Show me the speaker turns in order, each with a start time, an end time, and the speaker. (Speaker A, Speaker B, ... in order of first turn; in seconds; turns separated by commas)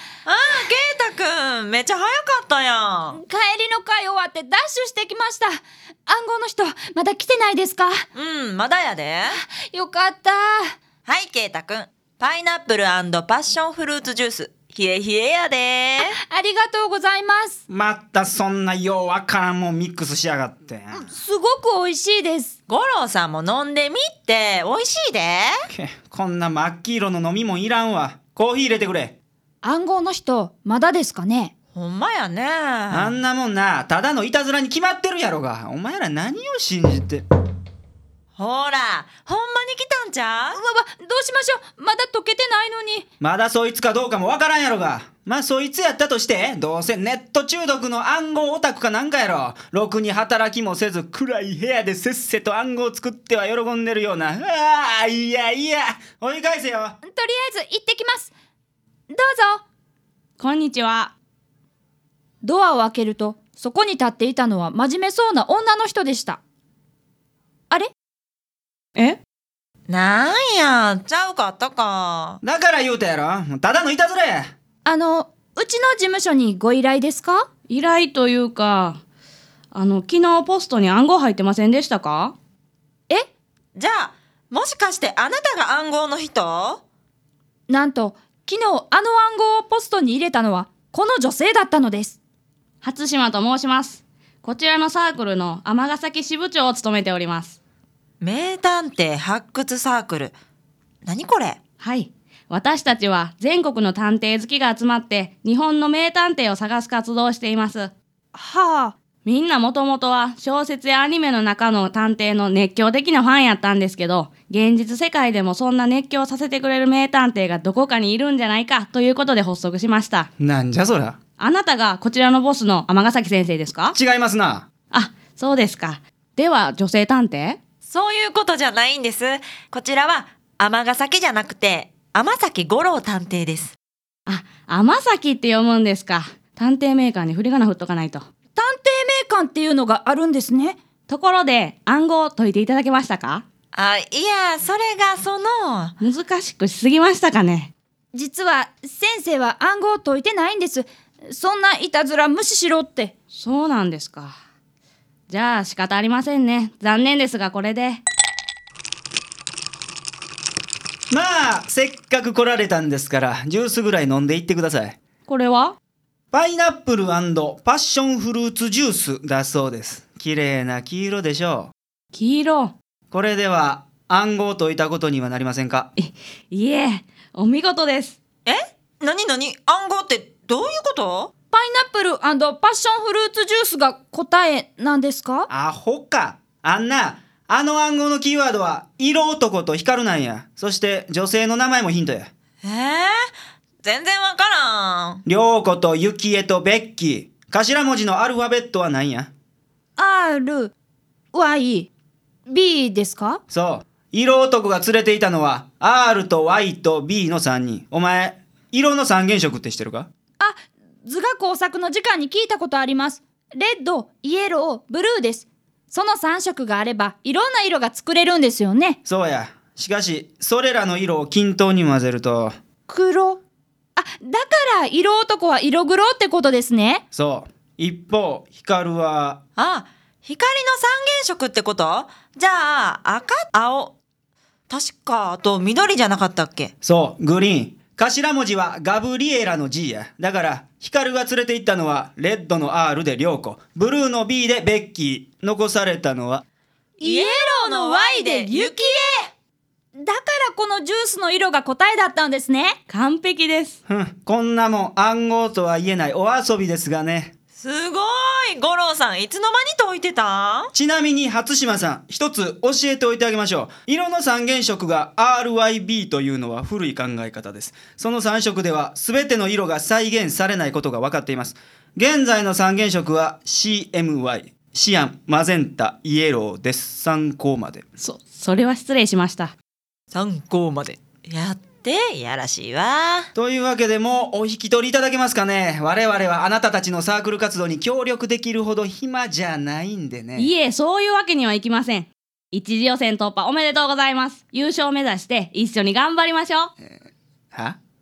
Speaker A: 0.2-3.2, Speaker B: 3.1-8.0, Speaker A: 8.1-9.3, Speaker B: 9.3-10.7, Speaker A: 11.1-16.1, Speaker B: 16.0-17.6, Speaker C: 17.7-21.1, Speaker B: 20.9-22.5, Speaker A: 22.7-25.5, Speaker C: 25.7-29.1, Speaker B: 29.6-31.5, Speaker A: 31.7-33.1, Speaker C: 32.9-37.2, Speaker A: 38.4-40.6, Speaker B: 40.5-43.0, Speaker C: 43.2-57.0, Speaker B: 57.0-58.3, Speaker B: 59.1-59.6, Speaker D: 60.4-61.1, Speaker B: 62.4-66.4, Speaker A: 69.9-72.4, Speaker C: 72.4-74.5, Speaker B: 74.8-77.5, Speaker D: 77.7-79.0, Speaker D: 79.7-82.3, Speaker A: 83.8-86.8, Speaker B: 87.7-92.2, Speaker D: 92.8-97.6, Speaker A: 98.2-100.3, Speaker A: 101.0-101.6, Speaker D: 101.8-107.9, Speaker B: 108.3-109.0, Speaker D: 109.2-120.3, Speaker C: 120.4-121.2, Speaker D: 121.4-124.0, Speaker C: 123.9-124.7, Speaker D: 124.9-127.6, Speaker A: 127.8-133.8, Speaker D: 134.3-138.2, Speaker B: 138.6-140.8, Speaker D: 141.1-143.4, Speaker A: 143.7-145.9, Speaker D: 146.0-147.7, Speaker B: 148.1-153.1, Speaker D: 153.3-154.4, Speaker D: 155.3-158.0, Speaker C: 161.1-165.0, Speaker D: 165.2-165.8, Speaker C: 166.3-171.7, Speaker D: 172.1-172.7, Speaker C: 173.1-175.9, Speaker D: 176.0-178.2, Speaker A: 178.4-181.3, Speaker B: 181.5-185.5, Speaker C: 185.5-192.3, Speaker A: 192.6-193.3, Speaker A: 193.8-195.2, Speaker C: 195.2-199.3, Speaker B: 200.0-200.7, Speaker B: 201.3-201.9, Speaker B: 202.5-203.4, Speaker C: 203.5-210.1, Speaker B: 210.4-219.0, Speaker C: 219.0-222.5, Speaker B: 222.9-223.4, Speaker B: 224.0-227.0, Speaker C: 227.1-229.4, Speaker A: 229.6-233.9, Speaker A: 234.7-236.7, Speaker C: 236.8-246.4, Speaker B: 247.0-249.1, Speaker A: 247.0-249.3, Speaker B: 250.0-252.8, Speaker D: 252.9-253.8, Speaker C: 253.9-257.3, Speaker A: 257.6-260.7, Speaker C: 260.7-277.8, Speaker D: 278.0-279.5, Speaker A: 280.1-283.3, Speaker C: 283.3-290.5, Speaker D: 290.3-296.7, Speaker C: 297.5-297.8